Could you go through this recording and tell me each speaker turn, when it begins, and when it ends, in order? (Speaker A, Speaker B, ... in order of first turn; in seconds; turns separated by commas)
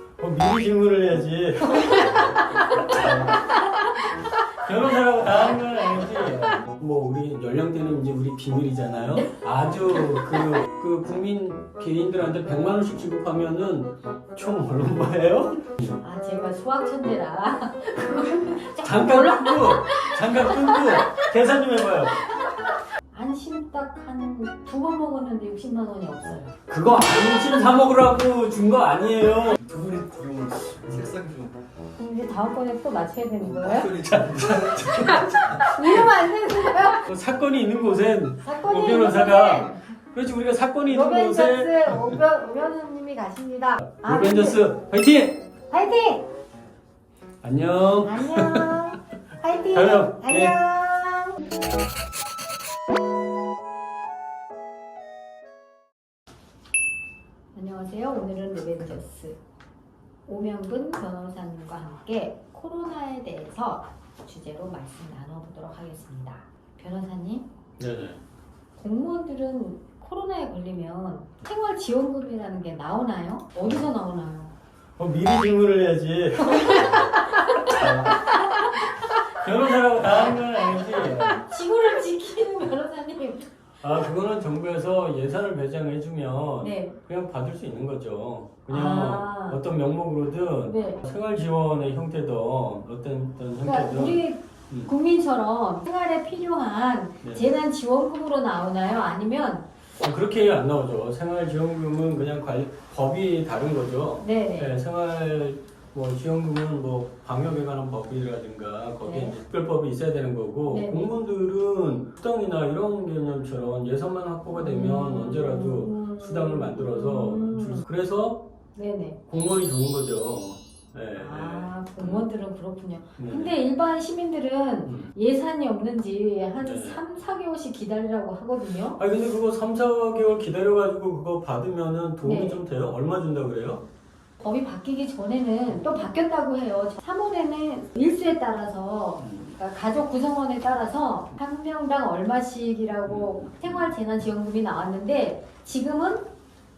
Speaker A: 0.2-3.6, Speaker B: 1.7-3.9, Speaker A: 4.5-16.0, Speaker B: 16.0-21.2, Speaker A: 18.8-22.2, Speaker B: 22.2-26.5, Speaker A: 26.7-29.6, Speaker C: 29.5-31.6, Speaker B: 31.9-33.9, Speaker C: 33.4-35.7, Speaker A: 34.0-36.1, Speaker B: 35.6-37.0, Speaker A: 37.0-42.2, Speaker B: 38.4-39.9, Speaker B: 40.9-44.6, Speaker A: 43.8-45.4, Speaker B: 45.7-46.2, Speaker A: 47.4-48.9, Speaker B: 48.0-51.5, Speaker A: 49.7-50.6, Speaker B: 57.5-59.4, Speaker B: 60.2-67.4, Speaker A: 67.8-68.2, Speaker B: 68.7-74.5, Speaker A: 75.0-81.4, Speaker B: 76.5-78.6, Speaker B: 81.3-83.5, Speaker A: 83.8-94.9, Speaker B: 86.6-87.0, Speaker B: 88.7-89.6, Speaker B: 90.7-91.0, Speaker B: 93.6-99.7, Speaker A: 100.0-118.4, Speaker B: 104.2-104.8, Speaker B: 109.0-109.3, Speaker B: 110.7-111.1, Speaker B: 114.5-117.8, Speaker B: 118.7-119.2, Speaker A: 119.3-122.3, Speaker B: 121.1-129.0, Speaker A: 123.2-123.5, Speaker A: 126.6-127.0, Speaker A: 129.0-133.8, Speaker B: 132.2-132.6, Speaker B: 134.4-146.2, Speaker A: 135.7-136.0, Speaker A: 139.2-139.6, Speaker A: 143.1-143.9